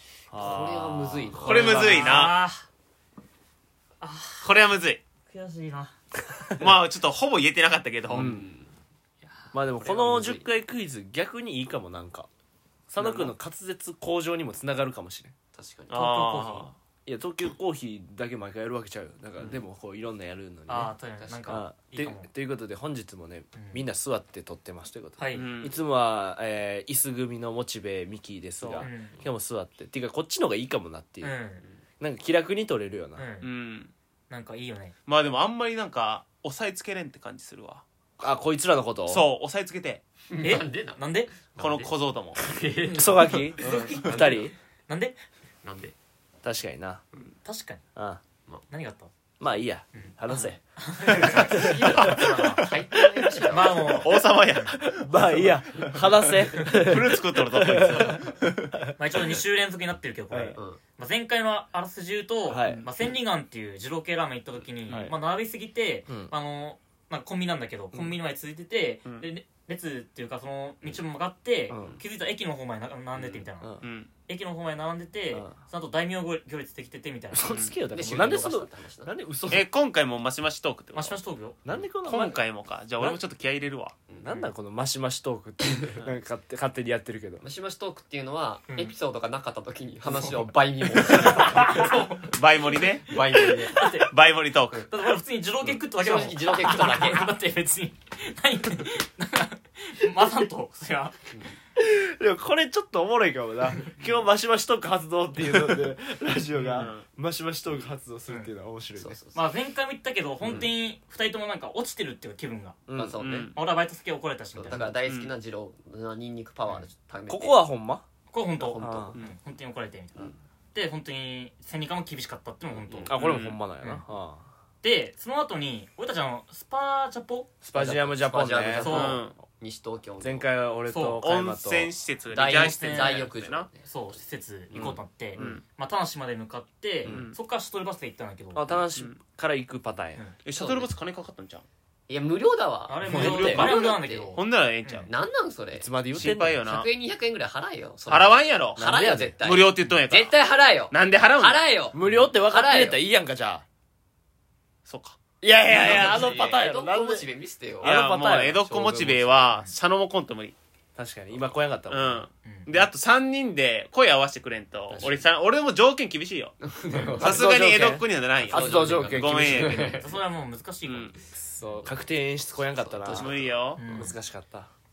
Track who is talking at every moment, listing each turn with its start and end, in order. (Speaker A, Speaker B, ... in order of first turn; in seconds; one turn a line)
Speaker A: 0.3-2.3
Speaker B: 0.3-1.8
Speaker C: 1.4-2.4
Speaker D: 1.5-2.6
Speaker D: 4.0-4.5
Speaker C: 4.4-5.0
Speaker D: 5.2-5.9
Speaker C: 6.6-8.3
Speaker A: 8.1-8.5
Speaker B: 8.1-8.7
Speaker D: 9.2-9.5
Speaker A: 9.5-12.3
Speaker B: 9.8-10.5
Speaker A: 12.9-15.3
Speaker B: 13.0-13.3
Speaker B: 15.5-16.0
Speaker D: 15.9-16.7
Speaker C: 15.9-16.8
Speaker A: 17.1-20.9
Speaker B: 19.4-19.6
Speaker D: 20.7-22.3
Speaker B: 21.2-21.6
Speaker A: 21.5-31.3
Speaker D: 23.6-23.8
Speaker D: 25.2-25.5
Speaker C: 25.3-25.8
Speaker B: 28.6-29.2
Speaker D: 28.8-29.2
Speaker D: 31.2-31.6
Speaker A: 32.0-33.2
Speaker D: 33.2-33.5
Speaker C: 33.4-33.9
Speaker D: 34.3-34.9
Speaker C: 35.0-37.8
Speaker A: 38.2-39.2
Speaker C: 39.1-40.0
Speaker B: 40.3-41.0
Speaker D: 40.4-41.5
Speaker B: 41.5-44.2
Speaker C: 41.6-42.4
Speaker A: 42.9-44.5
Speaker D: 43.5-45.2
Speaker B: 45.6-45.9
Speaker A: 46.4-47.0
Speaker D: 47.4-47.8
Speaker A: 48.0-48.2
Speaker D: 48.7-49.1
Speaker A: 49.4-52.1
Speaker D: 49.9-52.8
Speaker B: 51.1-54.0
Speaker D: 53.5-54.7
Speaker C: 54.0-58.4
Speaker A: 54.8-58.8
Speaker D: 57.7-58.3
Speaker D: 59.0-73.8
Speaker A: 60.3-60.6
Speaker B: 60.5-60.8
Speaker A: 62.5-62.9
Speaker C: 62.6-62.9
Speaker A: 64.9-65.2
Speaker A: 66.1-66.3
Speaker A: 71.7-72.0
Speaker C: 73.8-74.1
Speaker D: 74.3-78.5
Speaker A: 77.3-79.7
Speaker C: 77.5-77.8
Speaker B: 77.9-79.1
Speaker C: 79.5-81.2
Speaker D: 80.9-81.6
Speaker A: 81.6-82.4
Speaker C: 82.0-83.9
Speaker A: 84.2-87.4
Speaker D: 84.2-84.5
Speaker B: 87.4-92.0
Speaker D: 90.0-90.5
Speaker D: 91.2-92.3
Speaker C: 91.3-93.2
Speaker B: 93.0-93.8
Speaker D: 93.7-94.1
Speaker C: 93.7-94.9
Speaker D: 94.8-101.2
Speaker B: 95.9-97.3
Speaker B: 101.3-101.5
Speaker A: 101.8-109.2
Speaker D: 106.5-106.9
Speaker C: 106.7-107.0
Speaker B: 109.0-109.4
Speaker D: 109.3-112.8
Speaker B: 110.4-110.7
Speaker A: 112.9-113.5
Speaker B: 112.9-113.5
Speaker C: 113.2-113.6
Speaker D: 113.5-114.9
Speaker B: 114.5-117.6
Speaker C: 115.0-115.3
Speaker A: 117.3-118.0
Speaker D: 118.3-123.1
Speaker B: 118.6-119.2
Speaker A: 118.8-119.2
Speaker B: 122.7-123.2
Speaker A: 123.1-124.5
Speaker C: 123.1-123.6
Speaker D: 124.8-127.5
Speaker A: 127.6-128.9
Speaker B: 127.7-130.5
Speaker D: 128.8-129.2
Speaker C: 128.8-129.3
Speaker A: 130.2-131.9
Speaker D: 130.9-131.2
Speaker C: 131.2-133.7
Speaker B: 132.3-133.9
Speaker D: 132.5-133.3
Speaker D: 133.8-138.8
Speaker A: 134.7-135.6
Speaker C: 134.8-135.6
Speaker C: 137.1-137.4
Speaker A: 138.5-140.2
Speaker C: 140.4-141.7
Speaker B: 140.5-140.9
Speaker B: 142.1-144.4
Speaker D: 142.9-145.1
Speaker A: 143.1-143.7
Speaker C: 143.1-145.1
Speaker B: 145.1-145.9
Speaker A: 145.7-146.6
Speaker C: 146.1-146.9
Speaker B: 146.6-153.0
Speaker C: 148.1-148.8
Speaker A: 148.8-149.4
Speaker C: 149.4-150.3
Speaker C: 150.9-151.6
Speaker A: 151.9-153.6
Speaker C: 154.8-155.2
Speaker A: 155.4-157.3
Speaker B: 155.7-159.5
Speaker C: 155.8-156.3
Speaker A: 157.8-158.6
Speaker C: 157.8-160.5
Speaker A: 160.9-162.2
Speaker C: 161.9-166.5
Speaker D: 162.4-162.7
Speaker A: 164.9-165.2
Speaker B: 166.6-167.5
Speaker A: 167.2-169.9
Speaker C: 167.2-170.0
Speaker B: 168.5-170.2
Speaker D: 170.0-171.8
Speaker C: 170.8-171.2
Speaker A: 171.4-174.7
Speaker B: 172.7-173.6
Speaker C: 173.1-173.8
Speaker D: 173.8-174.2